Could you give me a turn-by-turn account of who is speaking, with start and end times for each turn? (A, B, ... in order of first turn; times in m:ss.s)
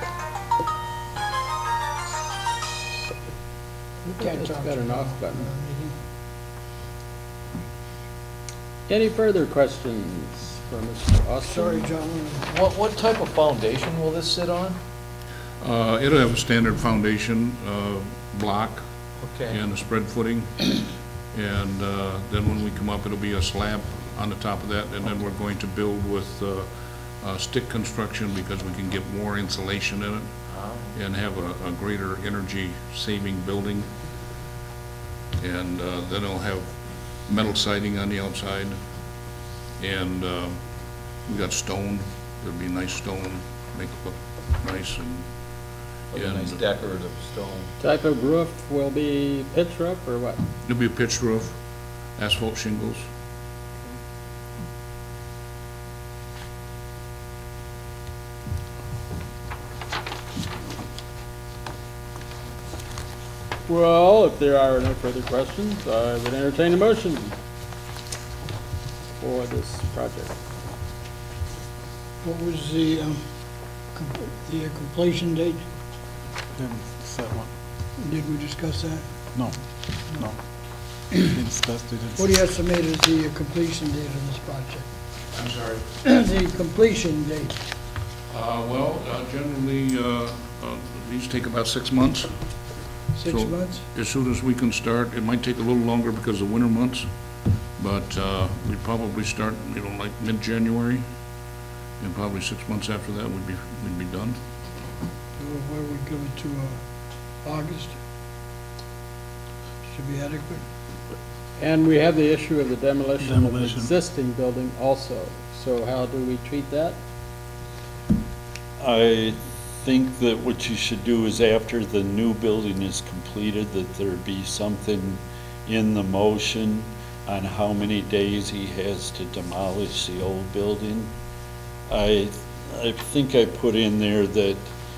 0:04.0-0:05.9 A
0:04.2-0:05.5 B
0:08.9-0:11.9 B
0:11.4-0:12.5 A
0:12.5-0:14.8 C
0:15.6-0:18.8 D
0:19.2-0:19.6 C
0:19.5-0:20.8 D
0:21.3-0:26.7 D
0:27.2-0:30.3 D
0:30.5-0:30.9 C
0:30.9-0:33.9 D
0:35.4-0:36.7 D
0:37.3-0:38.8 D
0:39.8-0:40.6 D
0:41.2-0:45.2 D
0:46.1-0:47.7 C
0:46.1-0:46.6 D
0:47.8-0:50.4 B
0:50.6-0:51.5 D
0:52.2-0:53.0 D
1:03.7-1:07.3 B
1:09.2-1:10.3 B
1:12.2-1:13.2 A
1:13.9-1:15.6 A
1:16.6-1:17.5 E
1:18.0-1:19.0 A
1:20.1-1:20.4 E
1:21.2-1:22.3 E
1:22.2-1:24.9 A
1:25.3-1:25.8 D
1:26.0-1:27.6 A
1:28.3-1:32.3 D
1:33.1-1:33.8 A
1:33.2-1:37.1 D
1:37.8-1:41.0 D
1:42.0-1:44.4 D
1:45.4-1:46.8 A
1:47.4-1:48.0 A
1:49.9-1:50.6 A
1:51.6-1:57.0 B
1:53.2-1:53.9 E
1:58.8-2:11.1 F
2:11.9-2:14.6 F